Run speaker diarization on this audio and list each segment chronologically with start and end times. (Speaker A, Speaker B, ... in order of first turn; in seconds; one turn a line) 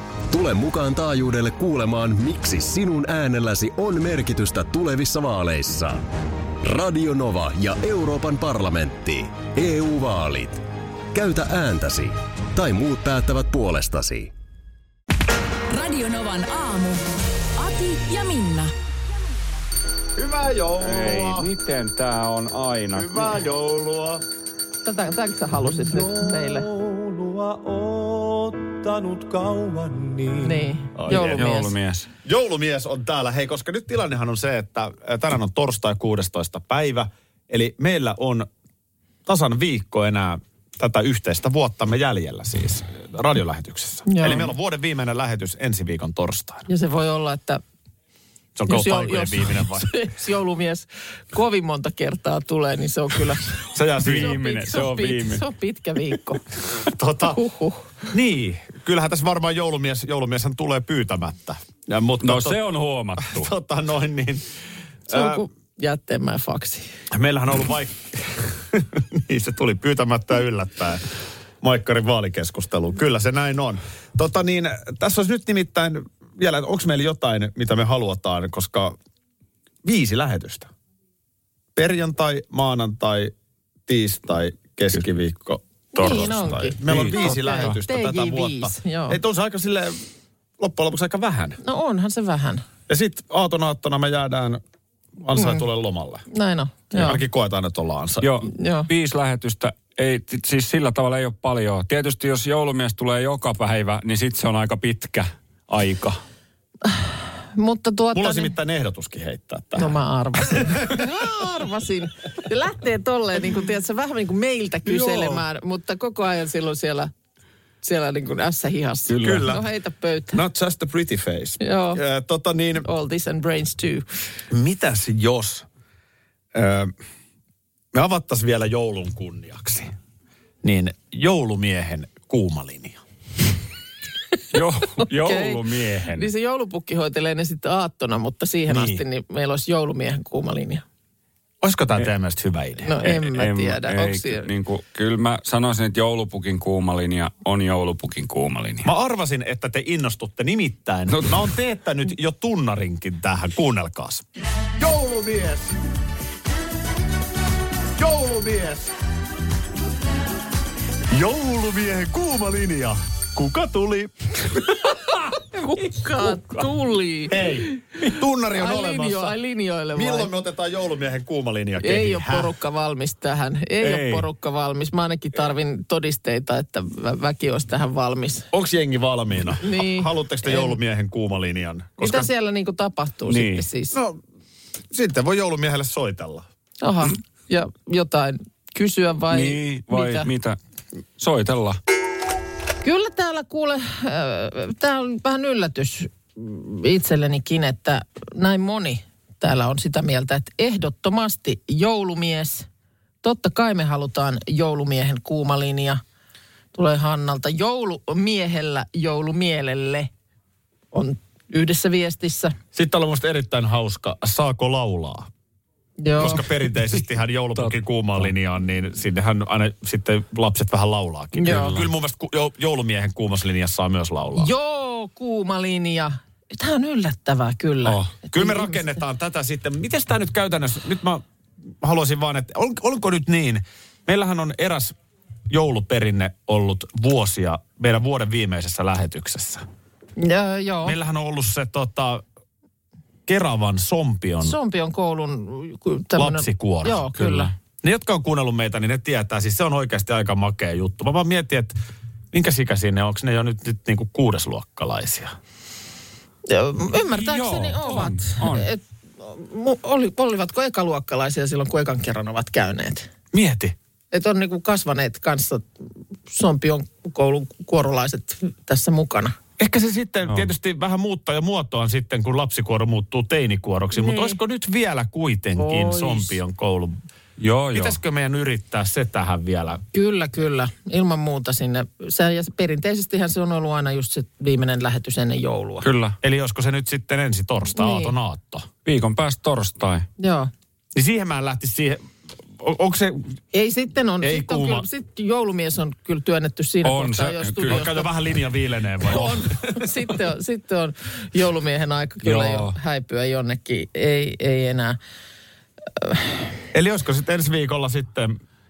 Speaker A: 0.3-6.1
Speaker A: 6.6-10.6
Speaker A: 11.1-14.3
Speaker B: 15.7-17.0
Speaker B: 17.6-18.7
Speaker C: 20.1-21.5
Speaker D: 20.8-23.4
Speaker C: 22.9-24.2
Speaker E: 24.8-26.7
Speaker C: 25.6-31.4
Speaker E: 30.4-31.7
Speaker D: 31.1-32.1
Speaker C: 32.2-38.5
Speaker C: 39.2-46.7
Speaker E: 44.0-44.5
Speaker E: 46.7-47.6
Speaker C: 48.5-50.0
Speaker E: 48.7-56.4
Speaker C: 53.7-54.4
Speaker D: 54.0-55.4
Speaker C: 56.9-57.4
Speaker E: 57.3-58.1
Speaker C: 58.1-62.6
Speaker D: 62.2-63.5
Speaker C: 63.2-64.4
Speaker C: 65.1-65.5
Speaker E: 65.1-66.9
Speaker C: 67.1-71.0
Speaker C: 71.6-79.0
Speaker C: 79.8-80.7
Speaker C: 81.7-83.3
Speaker C: 83.9-90.0
Speaker E: 85.9-89.2
Speaker D: 86.0-87.8
Speaker C: 90.6-91.6
Speaker E: 91.6-92.6
Speaker C: 92.9-94.6
Speaker C: 95.2-96.2
Speaker E: 95.3-95.6
Speaker E: 96.3-97.2
Speaker C: 96.9-98.3
Speaker D: 98.2-106.2
Speaker E: 98.5-98.9
Speaker E: 106.8-108.5
Speaker C: 108.1-111.0
Speaker E: 109.8-117.1
Speaker C: 114.9-115.3
Speaker E: 117.8-120.4
Speaker D: 119.1-119.5
Speaker C: 119.2-119.6
Speaker C: 120.3-122.8
Speaker E: 121.6-122.0
Speaker E: 122.8-124.0
Speaker C: 124.5-125.7
Speaker C: 126.5-126.9
Speaker C: 127.9-129.9
Speaker C: 130.6-133.0
Speaker D: 134.5-136.3
Speaker E: 135.1-140.8
Speaker C: 138.7-139.0
Speaker C: 141.6-142.9
Speaker E: 142.8-144.5
Speaker D: 143.0-148.9
Speaker C: 148.8-155.8
Speaker D: 151.1-151.4
Speaker C: 157.9-158.9
Speaker C: 161.1-164.9
Speaker E: 165.5-167.9
Speaker C: 167.3-169.3
Speaker E: 168.5-170.3
Speaker C: 169.9-172.5
Speaker E: 171.8-178.5
Speaker D: 173.8-174.3
Speaker C: 178.5-182.3
Speaker E: 179.6-180.8
Speaker E: 182.0-183.9
Speaker D: 183.3-183.7
Speaker C: 183.9-184.2
Speaker C: 184.9-186.4
Speaker E: 186.8-190.3
Speaker D: 189.3-190.6
Speaker D: 191.2-191.8
Speaker E: 192.8-202.7
Speaker E: 203.2-206.0
Speaker E: 206.7-210.1
Speaker E: 210.9-212.6
Speaker C: 212.7-215.3
Speaker E: 216.0-216.4
Speaker C: 216.2-224.5
Speaker E: 221.4-221.8
Speaker D: 221.4-221.8
Speaker E: 224.3-229.0
Speaker C: 228.2-231.2
Speaker C: 231.8-234.9
Speaker C: 235.5-239.6
Speaker E: 240.2-240.9
Speaker C: 240.8-242.2
Speaker C: 243.3-244.6
Speaker E: 244.4-247.5
Speaker C: 246.2-247.1
Speaker D: 247.2-247.5
Speaker C: 247.8-251.8
Speaker C: 252.3-255.3
Speaker E: 256.4-263.1
Speaker D: 257.1-258.7
Speaker C: 263.3-263.8
Speaker E: 264.1-265.7
Speaker E: 266.3-269.4
Speaker C: 269.6-277.0
Speaker E: 274.0-274.4
Speaker E: 275.6-276.4
Speaker D: 277.4-278.0
Speaker C: 277.7-279.8
Speaker E: 279.9-285.9
Speaker D: 285.8-286.2
Speaker C: 286.2-288.7
Speaker E: 287.7-288.1
Speaker D: 288.8-290.1
Speaker E: 290.2-290.5
Speaker C: 290.9-293.4
Speaker E: 293.5-298.1
Speaker C: 294.2-294.9
Speaker D: 296.8-297.9
Speaker C: 297.7-299.9
Speaker E: 299.0-305.0
Speaker D: 302.2-302.7
Speaker E: 305.9-306.5
Speaker C: 306.7-308.4